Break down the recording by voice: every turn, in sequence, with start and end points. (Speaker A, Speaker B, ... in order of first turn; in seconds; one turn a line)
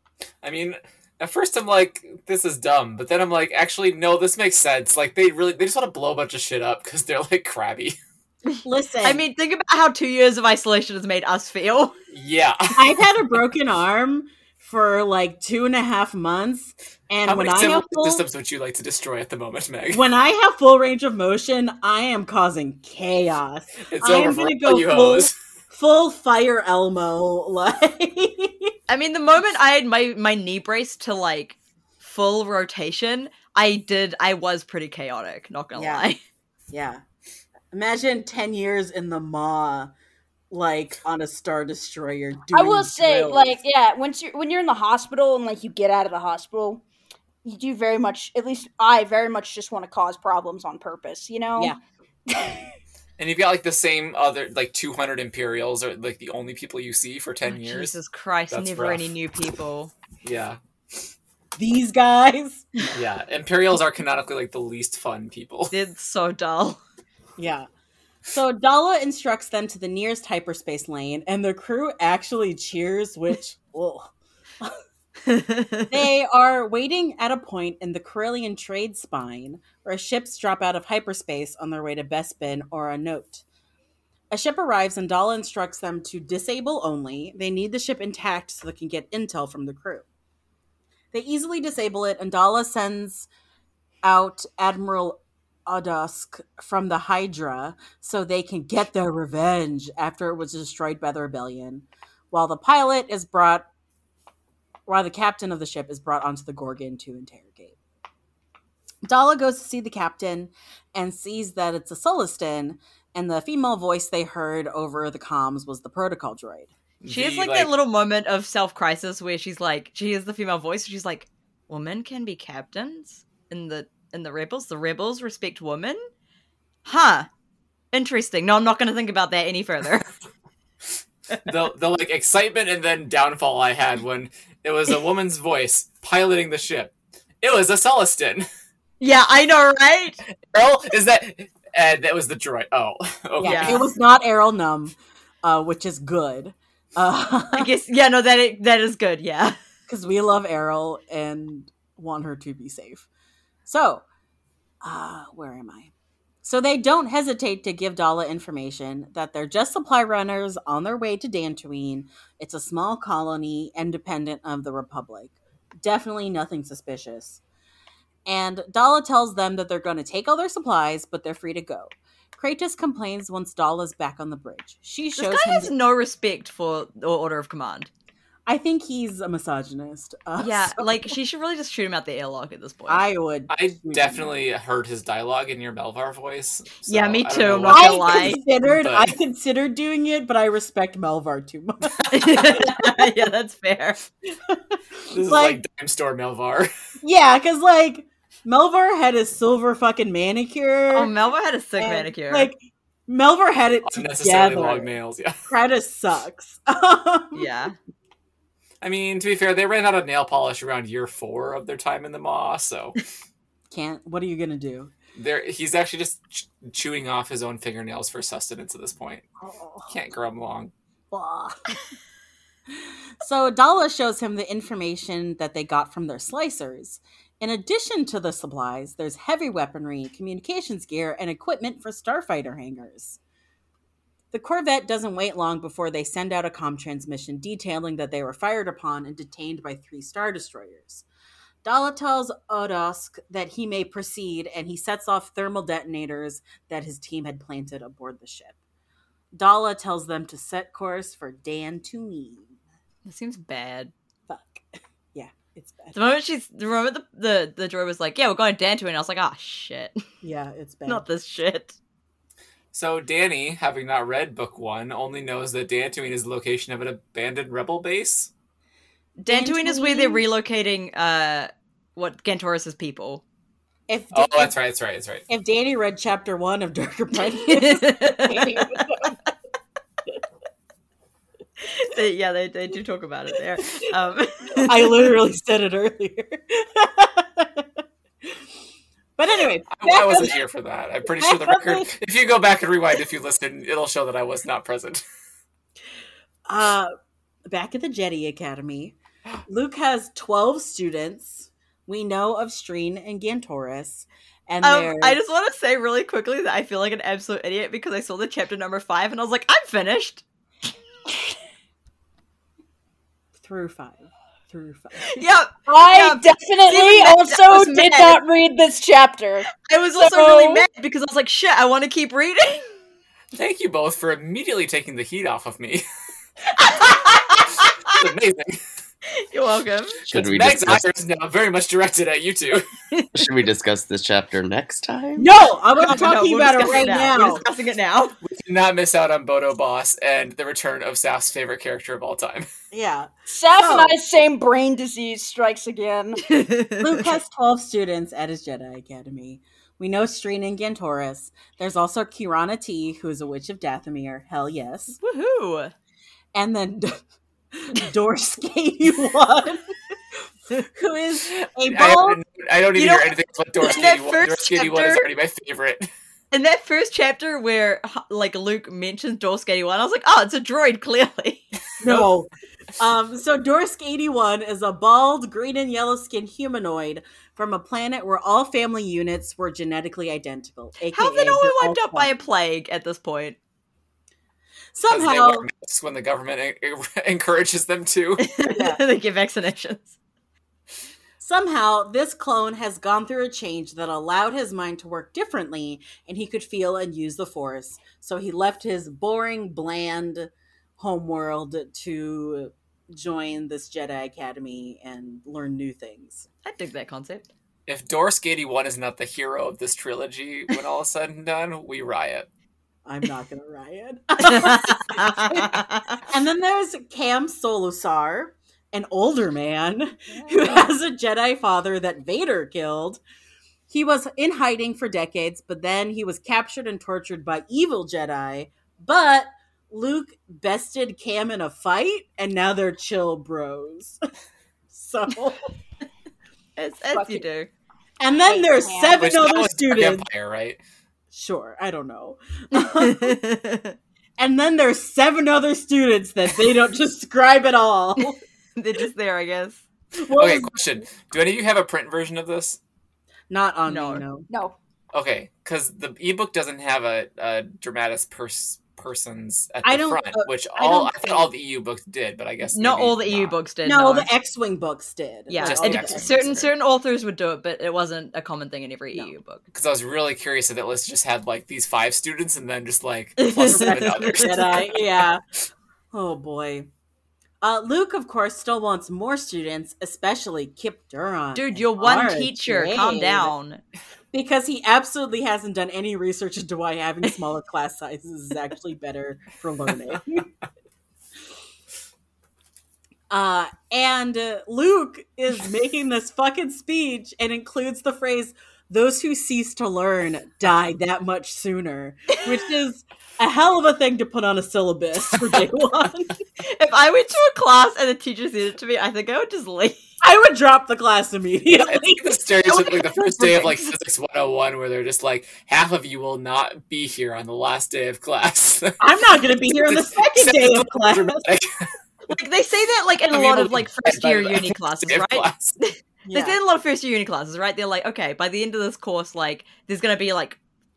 Speaker A: 0.4-8.0
Speaker B: 8.5-11.9
Speaker C: 8.6-9.2
Speaker A: 12.1-12.8
Speaker C: 12.7-18.2
Speaker A: 17.2-20.0
Speaker C: 19.9-28.7
Speaker A: 23.9-25.3
Speaker B: 28.9-36.2
Speaker C: 35.7-36.0
Speaker C: 36.7-37.0
Speaker C: 37.7-39.9
Speaker C: 40.5-43.6
Speaker D: 42.5-46.8
Speaker D: 47.4-51.7
Speaker A: 53.2-57.9
Speaker B: 57.5-59.9
Speaker A: 58.5-59.0
Speaker A: 60.2-60.6
Speaker C: 61.5-62.7
Speaker A: 62.9-65.7
Speaker B: 65.7-66.8
Speaker C: 67.4-67.7
Speaker C: 68.3-74.8
Speaker B: 75.2-76.0
Speaker C: 75.9-83.4
Speaker C: 84.3-90.0
Speaker C: 91.1-93.3
Speaker C: 94.0-103.7
Speaker C: 104.9-107.8
Speaker C: 109.0-116.7
Speaker A: 117.0-117.7
Speaker B: 117.1-126.0
Speaker B: 126.8-127.3
Speaker B: 127.9-130.1
Speaker A: 131.4-138.4
Speaker B: 139.0-140.2
Speaker A: 140.5-143.9
Speaker C: 143.4-147.7
Speaker B: 143.4-143.8
Speaker B: 147.5-149.6
Speaker C: 149.9-153.1
Speaker C: 153.7-154.0
Speaker C: 154.8-155.9
Speaker C: 156.4-167.4
Speaker C: 168.2-175.7
Speaker B: 175.2-177.9
Speaker C: 178.5-181.1
Speaker B: 180.4-183.0
Speaker C: 182.9-184.3
Speaker A: 183.5-189.1
Speaker B: 186.8-188.4
Speaker C: 187.7-193.0
Speaker B: 192.1-194.0
Speaker C: 194.5-195.6
Speaker A: 195.1-196.7
Speaker C: 197.0-201.1
Speaker B: 200.9-202.5
Speaker C: 201.8-204.9
Speaker A: 203.8-205.4
Speaker C: 205.5-207.5
Speaker B: 207.3-207.8
Speaker A: 208.8-213.0
Speaker C: 213.7-214.9
Speaker A: 215.1-219.3
Speaker C: 219.4-219.9
Speaker A: 219.9-220.7
Speaker C: 221.1-221.7
Speaker C: 222.8-233.2
Speaker C: 234.3-241.0
Speaker C: 241.6-248.5
Speaker C: 249.3-252.6
Speaker B: 253.0-253.9
Speaker C: 254.3-255.9
Speaker B: 255.9-260.0
Speaker C: 260.2-261.0
Speaker B: 260.9-261.8
Speaker A: 262.7-268.3
Speaker B: 269.2-273.2
Speaker C: 269.3-270.2
Speaker C: 273.9-274.5
Speaker A: 274.1-275.2
Speaker C: 275.3-279.2
Speaker B: 277.4-278.8
Speaker B: 281.6-285.1
Speaker C: 284.6-287.7
Speaker C: 289.2-290.4
Speaker A: 289.7-295.0
Speaker C: 291.1-291.9
Speaker C: 296.5-296.9
Speaker C: 297.5-305.2
Speaker B: 304.6-310.2
Speaker C: 313.4-315.2
Speaker B: 315.0-318.2
Speaker D: 315.7-320.6
Speaker B: 319.6-322.7
Speaker A: 323.3-325.8
Speaker A: 327.6-328.6
Speaker B: 329.1-330.1
Speaker E: 330.1-330.8
Speaker A: 330.1-332.7
Speaker E: 333.1-335.3
Speaker C: 335.2-337.4
Speaker B: 335.8-338.2
Speaker A: 338.2-342.5
Speaker C: 342.7-343.9
Speaker D: 343.3-346.2
Speaker B: 346.3-347.1
Speaker C: 346.8-355.0
Speaker B: 355.0-355.7
Speaker C: 356.3-357.0
Speaker C: 357.5-359.8
Speaker C: 360.6-362.2
Speaker A: 361.7-365.9
Speaker B: 362.7-365.0
Speaker B: 366.3-372.1
Speaker C: 371.8-382.1
Speaker B: 380.9-383.4
Speaker C: 384.7-385.5
Speaker A: 384.9-388.2
Speaker B: 388.2-389.9
Speaker C: 388.4-388.8
Speaker C: 391.2-406.2
Speaker B: 406.4-407.3
Speaker A: 407.7-412.3
Speaker C: 412.9-423.0
Speaker B: 414.2-416.0
Speaker C: 423.7-434.0
Speaker C: 434.7-435.4
Speaker B: 436.6-437.5
Speaker D: 436.9-437.2
Speaker C: 438.0-440.1
Speaker D: 438.3-439.1
Speaker A: 439.0-440.6
Speaker C: 441.1-443.2
Speaker B: 442.5-443.8
Speaker C: 444.2-448.2
Speaker B: 448.6-449.6
Speaker C: 449.9-450.6
Speaker A: 450.1-452.6
Speaker C: 453.3-454.3
Speaker B: 453.7-454.0
Speaker D: 454.3-454.5
Speaker A: 454.9-463.3
Speaker C: 459.6-461.3
Speaker B: 462.4-464.1
Speaker C: 463.6-466.3
Speaker B: 465.3-469.4
Speaker A: 465.4-466.5
Speaker A: 469.5-474.8
Speaker B: 473.2-474.6
Speaker C: 473.4-475.2
Speaker C: 475.9-476.7
Speaker C: 477.4-483.3
Speaker B: 481.3-483.6
Speaker C: 484.1-490.2
Speaker C: 493.1-506.2
Speaker B: 506.4-509.8
Speaker C: 510.0-512.9
Speaker A: 511.7-518.8
Speaker B: 512.5-513.7
Speaker C: 518.8-521.3
Speaker A: 519.4-521.7
Speaker B: 522.1-530.4
Speaker A: 523.1-525.6
Speaker C: 526.0-526.4